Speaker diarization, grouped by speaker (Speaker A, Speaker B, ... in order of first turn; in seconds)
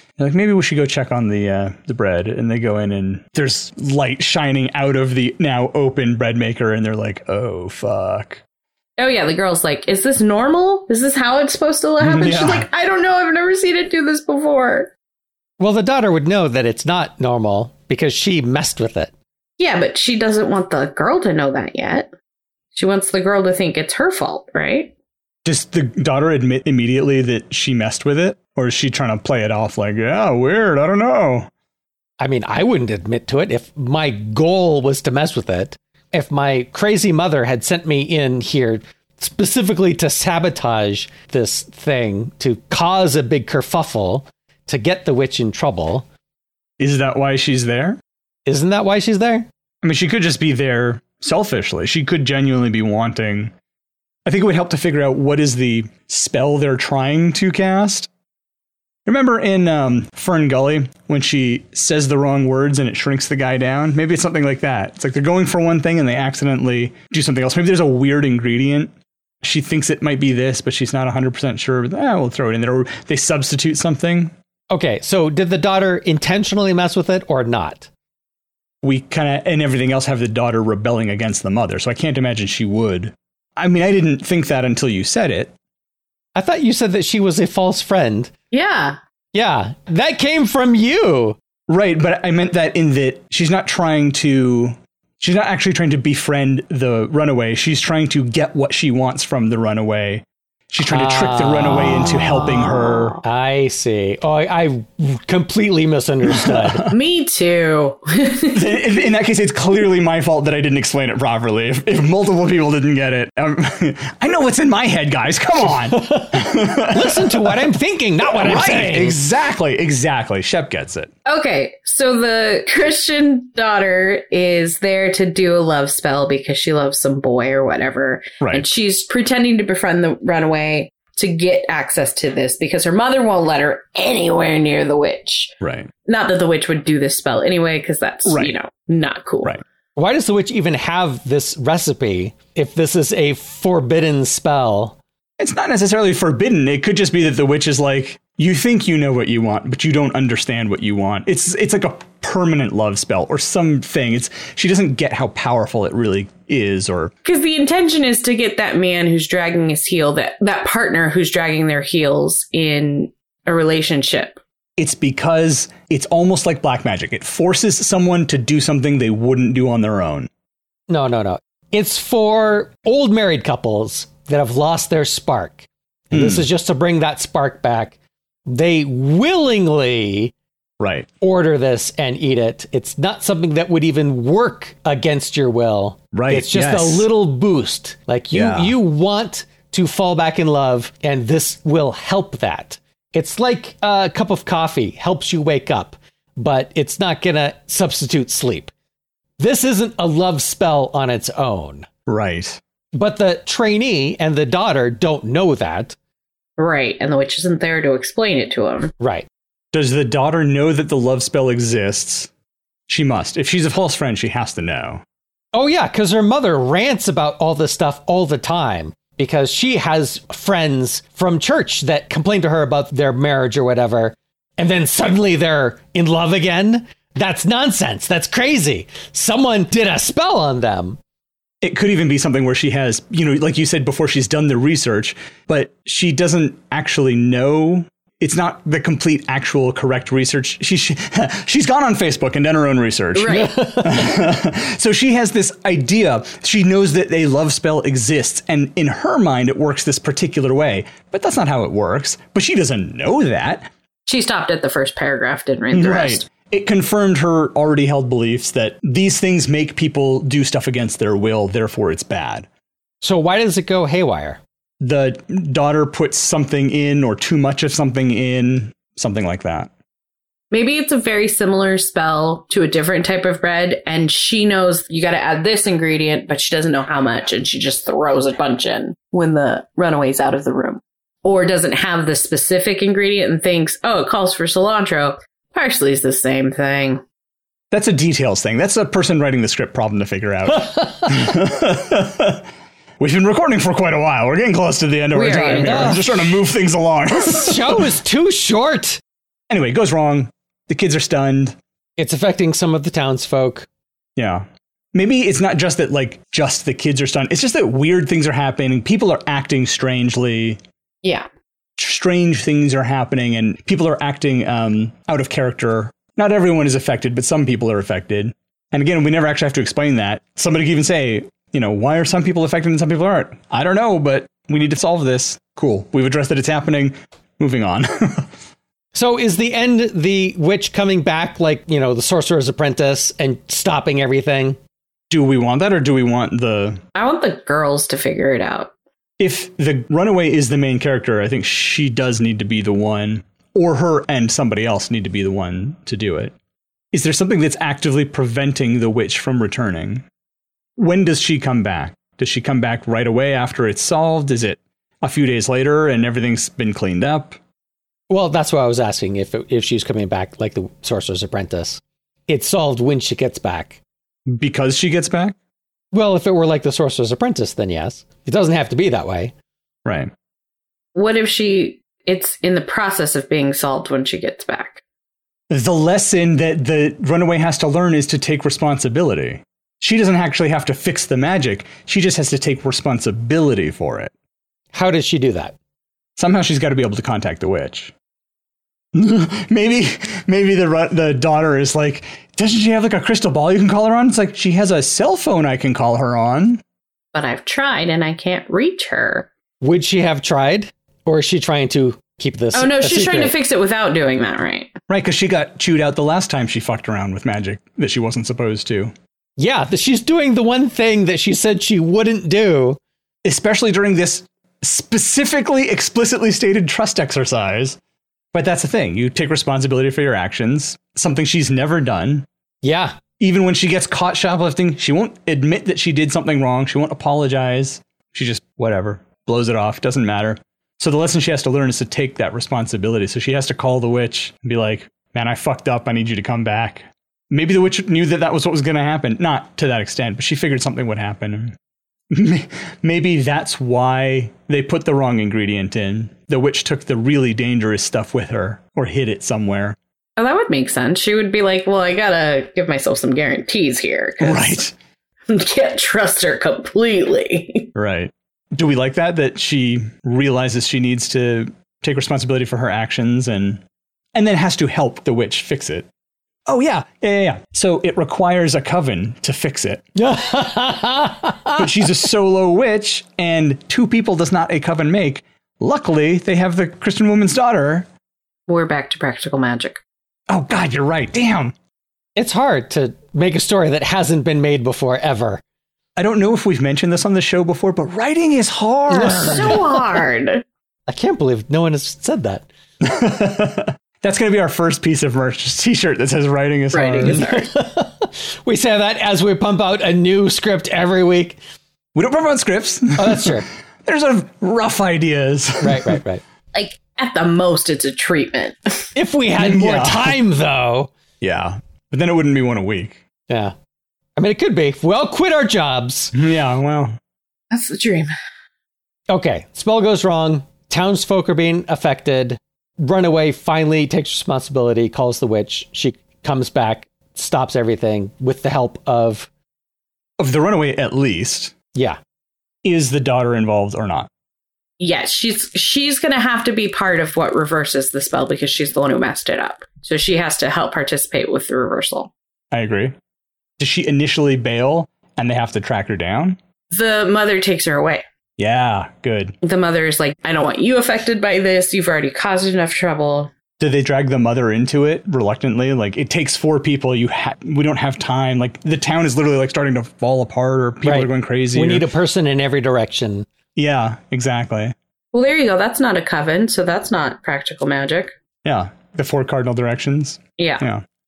Speaker A: 0.2-8.4, 12.0-12.7, 25.4-31.5, 46.8-48.0, 49.8-53.5, 54.2-58.1, 59.0-74.3, 78.8-85.5, 91.7-103.2, 106.3-106.9, 108.5-117.6, 118.2-121.1, 128.4-128.7, 135.6-135.9, 138.2-138.5, 145.4-157.1, 164.8-170.3, 176.1-176.4, 180.8-181.1, 186.1-187.1, 188.3-188.7, 202.1-202.6, 209.7-212.3, 212.9-215.0, 231.6-253.7, 255.7-262.5, 264.8-269.7, 287.7-292.4, 293.0-297.9, 299.5-301.6, 304.1-310.6, 311.8-328.3, 335.1-336.8, 339.2-346.3, 346.9-350.0, 350.8-357.4, 364.3-365.4, 369.9-370.1, 375.5-384.1, 386.2-387.9, 388.9-396.6, 404.9-408.9, 413.2-417.8, 418.3-422.3, 423.2-441.6, 442.1-449.8, 454.2-454.7, 457.7-463.6, 464.1-465.9, 466.5-469.9, 471.6-477.9, 480.3-481.5, 486.0-489.8, 492.8-497.2, 501.9-506.0, 509.4-510.2, 511.2-513.0, 516.1-517.0, 530.2-531.5, 532.6-534.1, 542.5-542.9, 543.6-546.4, 548.4-549.3, 553.6-561.9, 563.5-564.7, 568.4-570.8
Speaker B: 9.0-14.9, 19.6-22.1, 22.7-24.9, 88.5-89.0, 102.2-103.2, 106.9-108.8, 121.2-139.6, 157.2-164.4, 206.6-208.9, 243.1-243.6, 254.1-256.2, 270.5-287.0, 295.1-296.1, 336.9-338.7, 370.9-374.8, 397.1-399.3, 402.5-404.7, 450.2-454.6, 455.3-457.7, 478.5-479.8, 489.1-490.4, 496.7-497.5, 506.5-508.9, 517.5-518.1, 534.8-542.1, 546.7-548.0, 549.4-553.3, 565.1-568.1, 570.4-570.6
Speaker C: 15.6-19.1, 32.2-46.0, 48.5-49.5, 74.7-77.9, 86.3-88.3, 89.3-91.4, 100.8-102.3, 103.2-106.9, 115.6-119.2, 139.9-145.0, 170.9-180.3, 181.2-198.7, 199.4-201.9, 202.9-205.9, 209.0-209.3, 215.5-231.0, 243.3-244.2, 263.0-264.4, 290.5-291.2, 295.3-296.1, 297.1-299.0, 302.0-303.7, 328.9-334.6, 358.1-363.8, 365.9-369.3, 384.7-385.5, 399.6-403.3, 409.4-412.8, 422.6-423.0, 469.9-471.7, 482.1-485.4, 488.9-489.6, 490.9-492.5, 497.0-501.4, 503.0-503.5, 505.6-506.2, 508.9-510.9, 513.3-513.5, 514.2-516.1, 519.1-529.3, 560.8-563.3